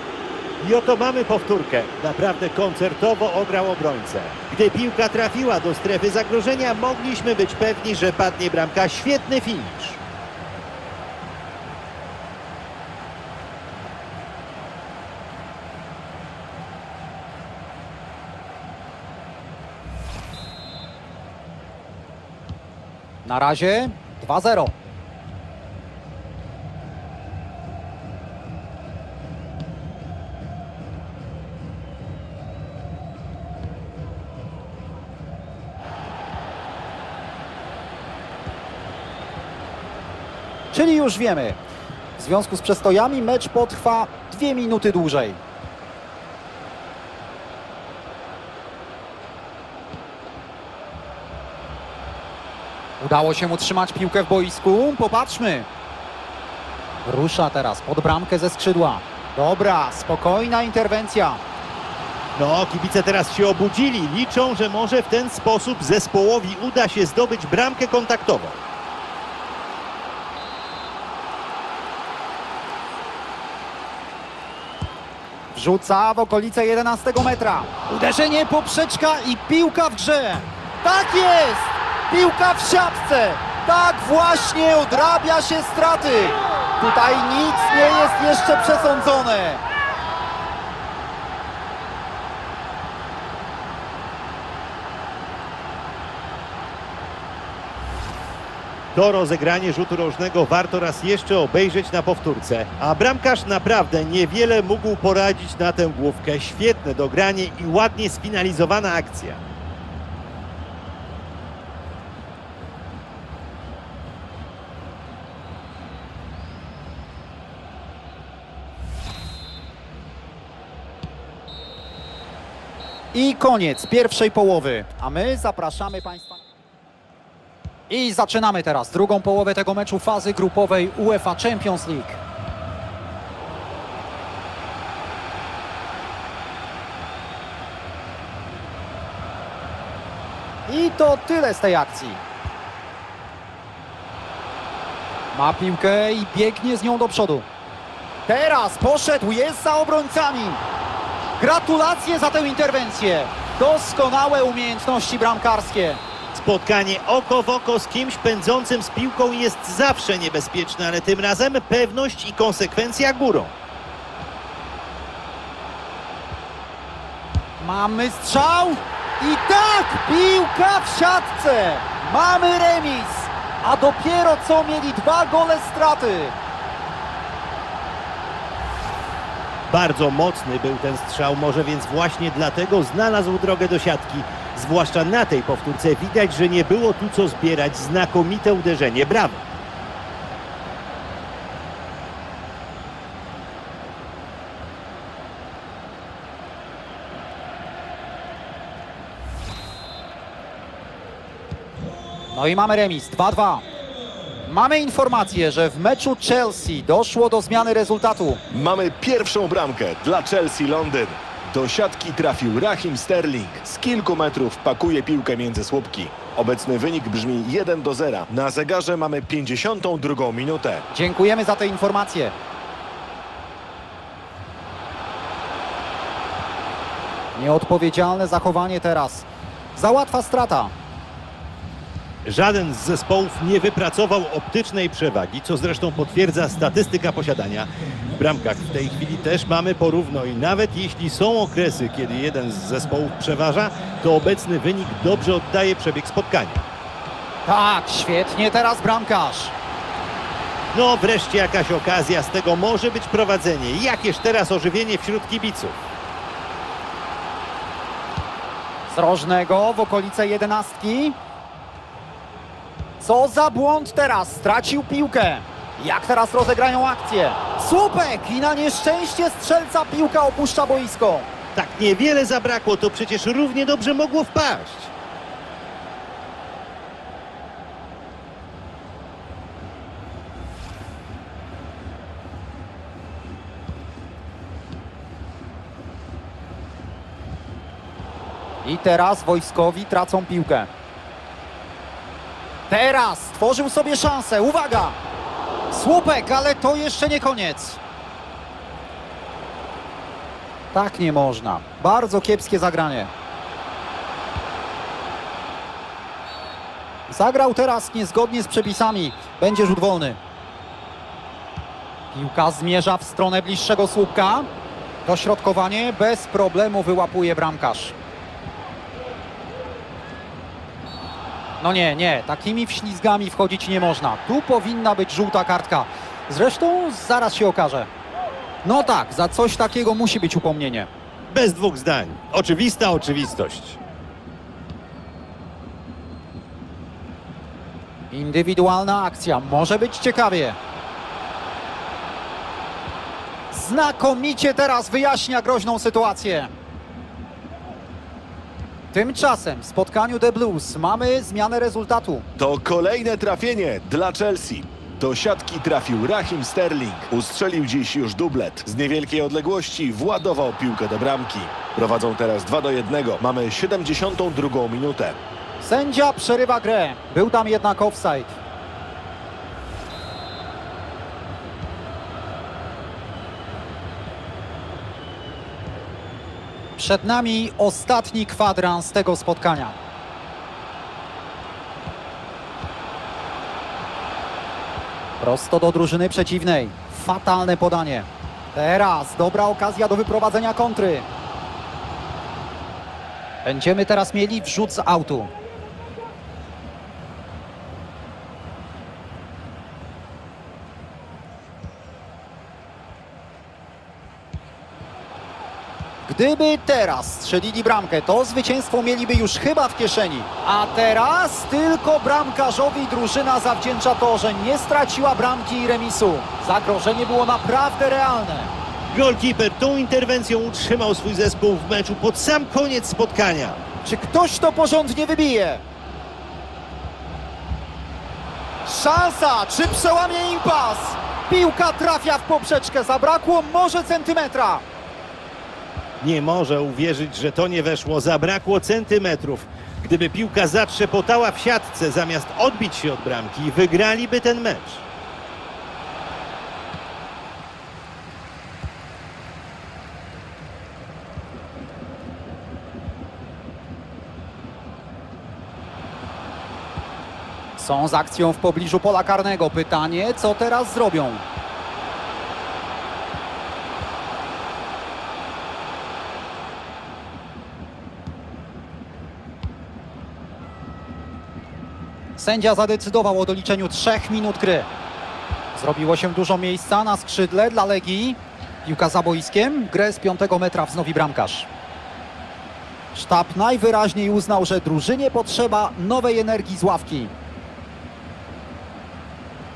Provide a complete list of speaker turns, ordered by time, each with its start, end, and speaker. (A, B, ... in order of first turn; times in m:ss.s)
0:00.6-0:10.0 A
0:23.2-0:24.8 B
0:40.7-0:41.6 B
0:42.2-0:45.4 B
0:53.0-0:55.7 B
0:57.0-1:01.4 B
1:02.4-1:08.6 A
1:15.5-1:29.6 B
1:38.9-1:49.4 A
2:03.1-2:06.4 B
2:07.9-2:12.2 B
2:20.7-2:22.2 B
2:25.3-2:27.5 B
2:28.3-2:30.6 B
2:31.4-2:36.0 B
2:36.3-2:43.5 A
2:47.6-2:56.4 B
2:59.7-3:09.4 A
3:22.3-3:23.6 B
3:24.4-3:28.4 B
3:28.5-3:40.8 C
3:40.9-3:42.3 B
3:47.4-3:50.7 B
3:52.2-4:06.6 A
4:07.5-4:09.5 B
4:10.7-4:15.8 A
4:18.9-4:21.2 B
4:23.0-4:31.3 B
4:31.6-4:34.9 A
4:48.6-4:50.7 B
4:52.7-4:55.0 B
4:55.7-4:57.8 B
5:00.7-5:03.1 B
5:07.1-5:10.2 B
5:12.1-5:14.5 B
5:15.0-5:18.0 B
5:21.6-5:27.9 B
5:28.6-5:30.9 B
5:31.3-5:33.8 A
5:38.1-5:40.6 B
5:43.5-5:46.5 B
5:48.9-5:52.3 B
5:52.4-6:05.2 C
6:05.6-6:08.4 B
6:16.8-6:19.8 B
6:25.2-6:31.1 B
6:33.4-6:35.3 B
6:46.0-6:58.5 B
6:58.9-7:03.6 A
7:03.8-7:05.6 B
7:08.6-7:14.6 B
7:16.0-7:24.8 A
7:37.6-7:41.2 B
7:52.2-7:54.7 B
7:55.6-8:01.5 B
8:02.9-8:07.1 B